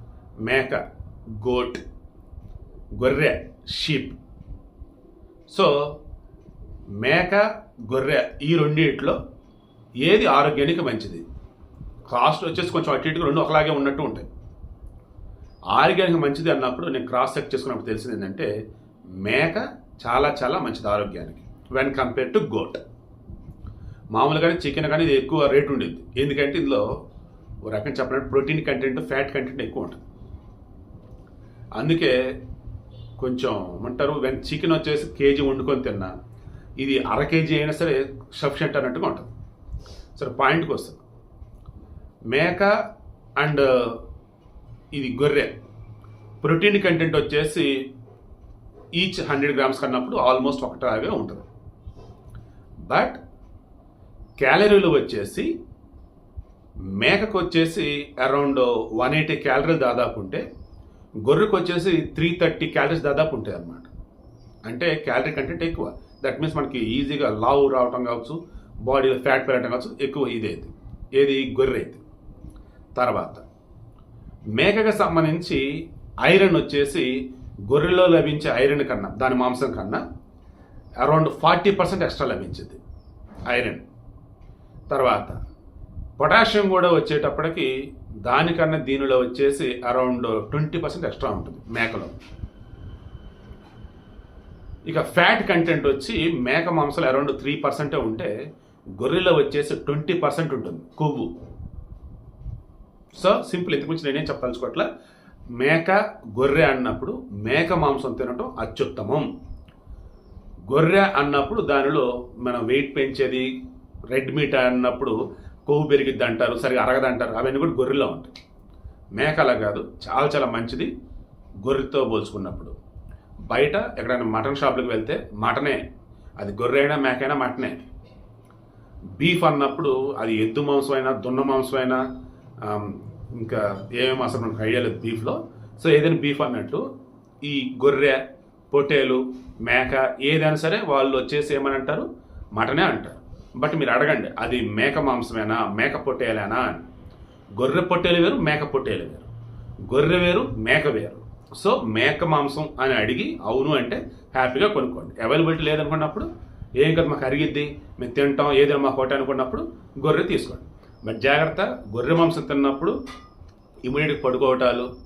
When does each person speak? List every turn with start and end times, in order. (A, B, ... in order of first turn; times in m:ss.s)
0:00.4-0:00.8 A
0:01.3-0:01.8 A
0:03.0-0:04.2 A
0:05.5-0:06.0 A
0:07.0-0:09.2 A
0:10.0-0:11.2 A
0:12.1-0:14.3 A
0:15.7-0:18.5 A
0:19.2-0:22.8 A
0:24.1-0:26.8 A
0:27.6-0:30.0 A
0:31.8-0:32.2 A
0:33.2-0:36.2 A
0:36.8-0:39.3 A
0:40.2-0:41.0 A
0:42.3-0:42.8 A
0:43.4-0:44.0 A
0:44.9-0:45.6 A
0:46.4-0:47.8 A
0:49.0-0:51.5 A
0:52.9-0:53.2 A
0:54.4-0:55.5 A
0:57.0-1:00.4 A
1:01.2-1:03.9 A
1:04.7-1:12.0 A
1:13.0-1:13.4 A
1:14.6-1:15.6 A
1:16.2-1:17.1 A
1:17.7-1:20.0 A
1:21.0-1:22.8 A
1:23.5-1:23.8 A
1:24.9-1:25.4 A
1:26.2-1:27.7 A
1:28.2-1:32.1 A
1:34.9-1:38.3 A
1:39.0-1:41.3 A
1:43.2-1:44.9 A
1:45.6-1:49.3 A
1:50.7-1:53.5 A
1:54.1-1:58.3 A
1:59.2-2:00.9 A
2:01.6-2:02.7 A
2:03.5-2:05.8 A
2:06.4-2:07.8 A
2:09.2-2:12.0 A
2:12.6-2:16.8 A
2:17.4-2:26.8 A
2:27.6-2:29.3 A
2:29.9-2:36.3 A
2:36.8-2:43.0 A
2:43.8-2:44.9 A